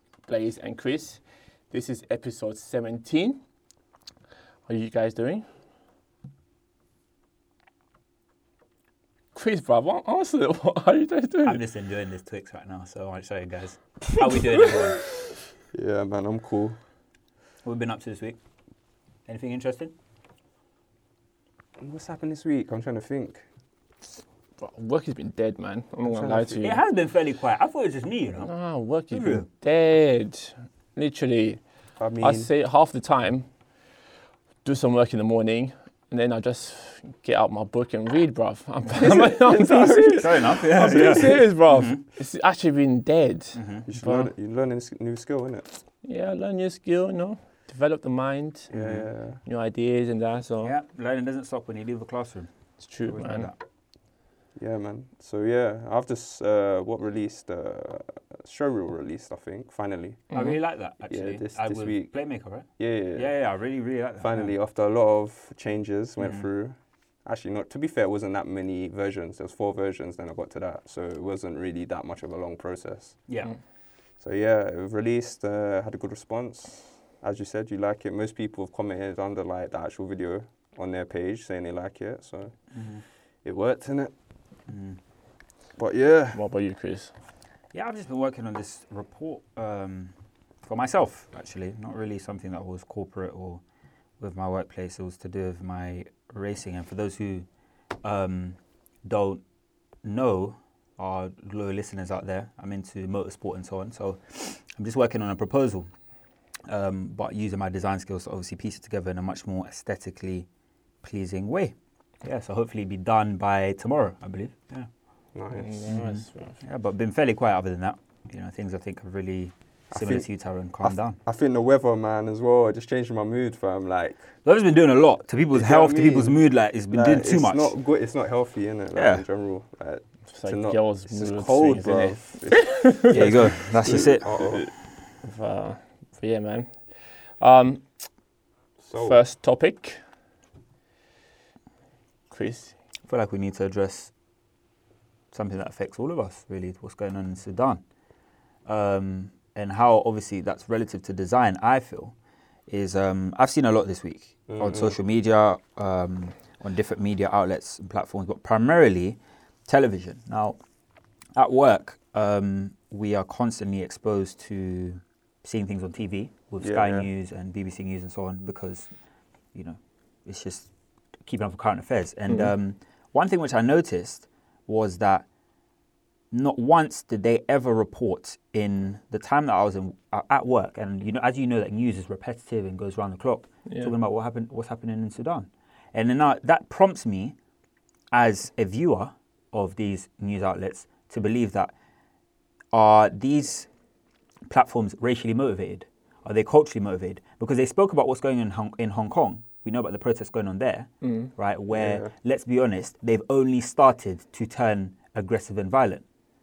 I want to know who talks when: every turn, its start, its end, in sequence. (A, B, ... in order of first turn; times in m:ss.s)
0:00.3-0:03.4 A
0:04.7-0:05.4 A
0:09.4-0:11.6 A
0:11.4-0:15.0 B
0:14.2-0:14.8 A
0:15.7-0:16.8 C
0:17.6-0:18.4 B
0:19.3-0:19.9 B
0:21.8-0:23.4 C
0:24.6-0:26.8 A
0:26.1-0:26.6 C
0:26.6-0:28.5 B
0:28.4-0:31.6 A
0:29.1-0:29.5 B
0:32.0-0:32.5 C
0:32.2-0:33.5 A
0:34.6-0:44.3 A
0:38.9-0:41.4 C
0:40.2-0:42.0 B
0:43.5-0:43.9 B
0:43.9-0:45.7 C
0:46.0-0:50.7 A
0:48.7-0:49.4 C
0:50.6-0:52.5 B
0:52.8-0:53.5 A
0:53.0-0:53.6 B
0:54.6-1:00.3 C
1:00.3-1:00.6 A
1:00.3-1:04.5 B
1:01.1-1:02.1 C
1:02.8-1:03.3 C
1:04.2-1:13.3 C
1:06.2-1:06.4 B
1:13.3-1:13.5 B
1:14.2-1:22.6 C
1:22.7-1:23.0 B
1:23.4-1:24.1 C
1:24.7-1:25.0 B
1:25.8-1:26.4 C
1:26.3-1:27.1 A
1:27.7-1:33.6 B
1:34.2-1:37.5 B
1:38.0-1:39.4 B
1:40.0-1:45.9 B
1:46.7-1:50.5 B
1:51.0-1:54.9 B
1:55.4-1:56.0 C
1:55.5-1:56.6 A
1:55.9-2:01.2 B
1:59.9-2:00.2 C
2:00.8-2:04.3 C
2:04.4-2:07.7 B
2:05.5-2:06.4 C
2:06.9-2:14.7 C
2:08.9-2:09.2 B
2:10.3-2:13.2 A
2:13.1-2:14.3 B
2:13.9-2:18.1 A
2:18.8-2:19.2 C
2:19.0-2:20.0 A
2:22.3-2:22.8 A
2:23.1-2:24.1 B
2:25.3-2:27.8 B
2:28.7-2:32.1 B
2:32.7-2:40.6 B
2:34.5-2:35.0 C
2:41.4-2:48.9 B
2:46.6-2:47.1 C
2:49.5-2:50.7 B
2:51.2-2:55.2 B
2:56.3-3:07.4 B
3:03.7-3:03.9 A
3:08.1-3:11.7 B
3:12.7-3:13.7 B
3:14.5-3:26.0 B
3:21.0-3:21.3 A
3:21.7-3:22.1 C